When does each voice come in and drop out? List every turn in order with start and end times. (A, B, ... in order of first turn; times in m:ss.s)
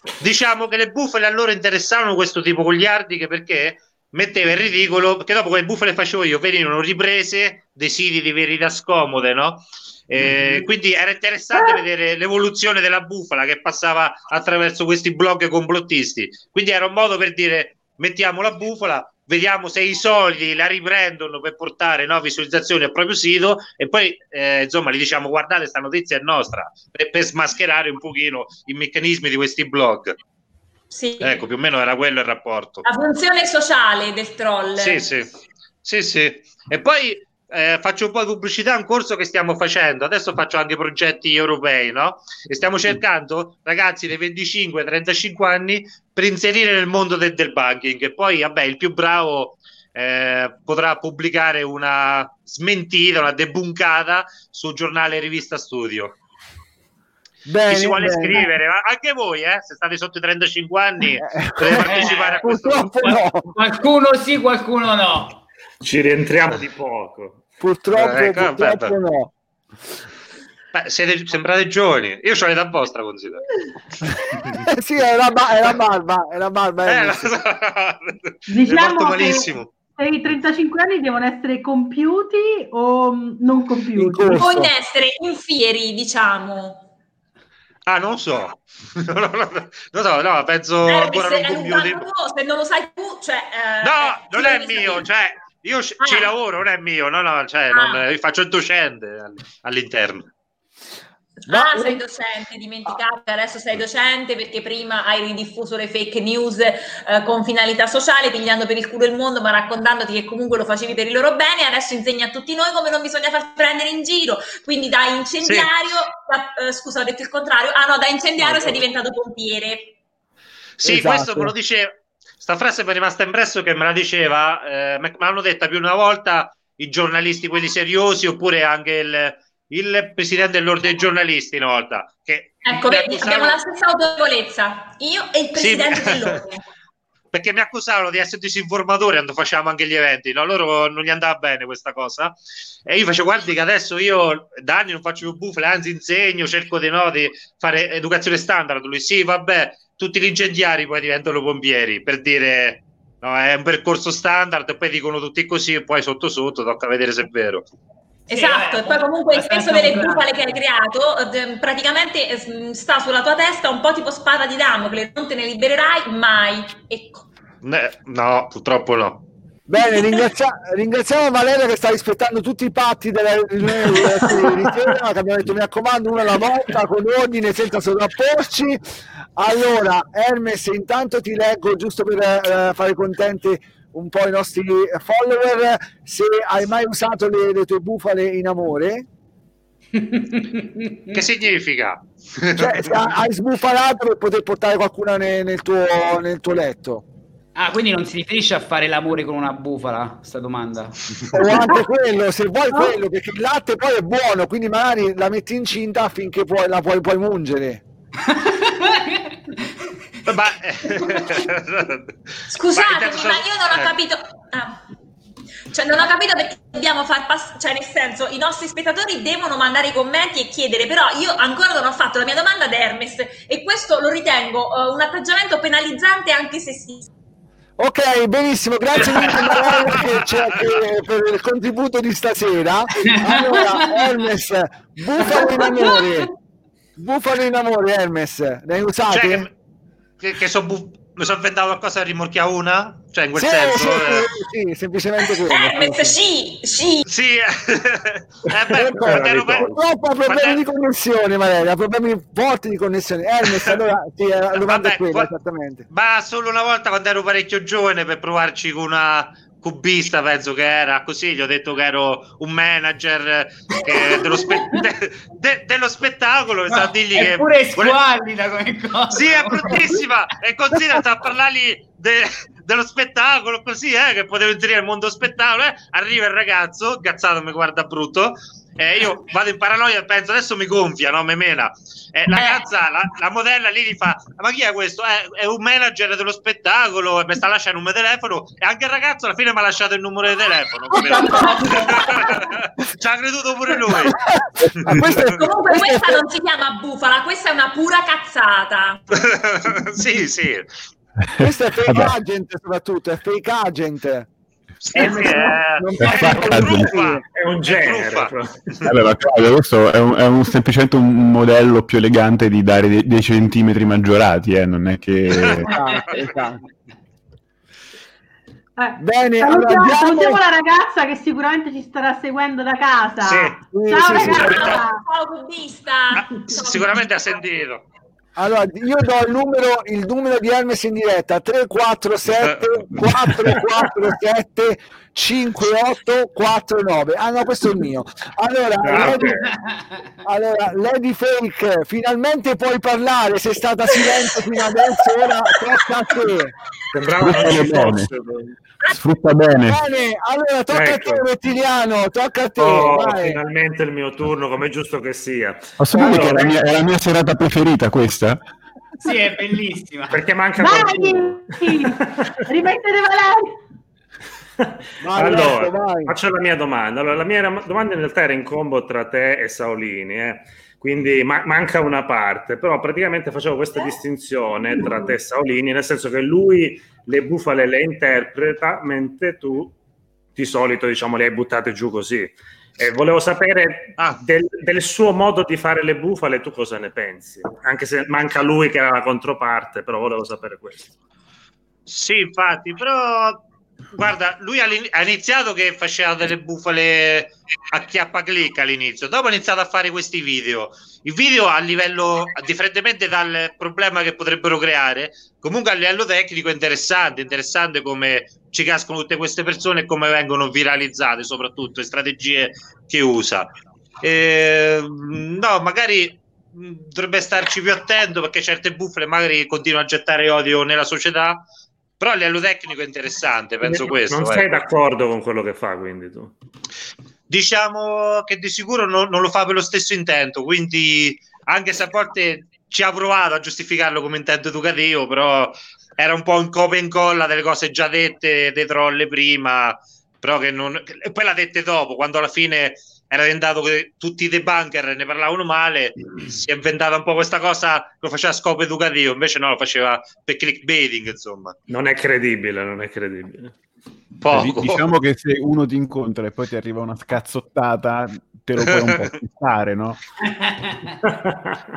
0:00.2-0:30.1 A
0:30.9-0:31.4 B
0:31.2-0:32.8 A
0:32.8-0:35.0 B
0:34.8-0:35.3 A
0:35.8-0:56.2 A
0:57.5-0:58.4 C
0:57.7-1:03.2 A
1:01.2-1:03.5 C
1:01.9-1:02.4 D
1:03.0-1:05.4 D
1:05.8-1:07.4 E
1:07.6-1:09.3 C
1:07.9-1:09.0 A
1:10.7-1:13.4 A
1:14.5-1:17.3 C
1:16.9-1:19.7 A
1:18.5-1:24.4 F
1:24.0-1:24.7 C
1:24.3-1:26.9 B
1:27.9-1:32.0 A
1:30.8-1:35.1 B
1:33.8-1:40.3 A
1:36.0-1:36.3 B
1:37.7-1:38.0 B
1:41.5-1:59.9 B
1:41.5-1:42.0 C
1:55.4-1:55.7 A
1:58.4-1:58.8 C
2:00.8-2:13.6 A
2:00.8-2:01.5 C
2:12.6-2:16.6 B
2:15.6-2:16.4 A
2:17.3-2:22.4 A
2:22.9-2:37.7 A
2:38.3-2:40.2 D
2:38.3-2:47.3 B
2:47.6-2:49.2 A
2:49.7-2:58.8 C
2:59.4-3:09.1 C
3:10.0-3:11.2 D
3:11.1-3:12.9 A
3:12.6-3:17.0 C
3:17.6-3:21.0 D
3:21.3-3:27.8 C
3:28.2-3:29.4 D
3:30.3-3:32.1 A
3:32.5-3:34.8 B
3:32.7-3:33.9 A
3:35.7-3:47.1 B
3:47.8-3:56.3 C
3:49.0-3:50.8 A
3:53.0-3:54.1 D
3:55.2-3:56.2 D
3:57.0-3:59.5 C
3:59.1-3:59.5 A
4:00.2-4:04.3 A
4:03.4-4:06.2 C
4:05.5-4:07.0 B
4:07.1-4:09.7 A
4:08.8-4:15.8 C
4:08.9-4:09.8 E
4:10.3-4:10.6 A
4:14.5-4:15.3 A
4:15.9-4:28.0 A
4:23.8-4:24.8 D
4:26.7-4:30.0 D
4:29.1-4:54.2 A
4:42.3-4:42.6 B
4:50.9-4:51.9 C
4:51.1-4:52.2 B
4:54.2-4:56.2 C
4:54.7-4:55.2 A
4:55.3-4:59.0 B
4:59.1-5:00.7 A
5:01.2-5:02.2 G
5:01.4-5:04.3 C
5:04.8-5:08.9 A
5:05.0-5:07.2 C
5:06.0-5:06.9 G
5:07.4-5:08.6 E
5:08.9-5:15.8 G
5:15.3-5:16.2 A
5:15.7-5:16.6 C
5:18.8-5:25.0 F
5:19.0-5:20.4 C
5:23.2-5:23.6 A
5:23.7-5:24.8 C
5:24.2-5:24.8 A
5:24.2-5:27.0 B
5:26.4-5:27.8 A
5:28.4-5:39.4 C
5:38.8-5:39.5 E
5:39.2-5:40.0 D
5:40.2-5:46.6 C
5:46.9-5:48.6 E
5:47.1-5:48.1 G
5:48.9-5:49.8 G
5:49.6-5:53.4 C
5:50.7-5:51.2 E
5:52.6-5:56.6 E
5:55.8-5:58.4 G
5:59.0-6:00.2 D
6:00.1-6:02.3 E
6:00.6-6:03.6 F
6:05.0-6:06.1 C
6:05.1-6:19.8 E
6:20.4-6:30.9 E
6:31.9-6:33.4 A
6:34.0-6:53.5 A
6:54.0-7:01.4 A
7:02.0-7:04.6 A
7:03.6-7:06.3 E
7:07.3-7:31.6 A
7:31.7-7:33.5 E
7:34.2-7:34.9 A
7:34.3-7:40.0 G
7:38.6-7:39.0 A
7:40.2-7:41.0 D
7:41.0-7:41.6 E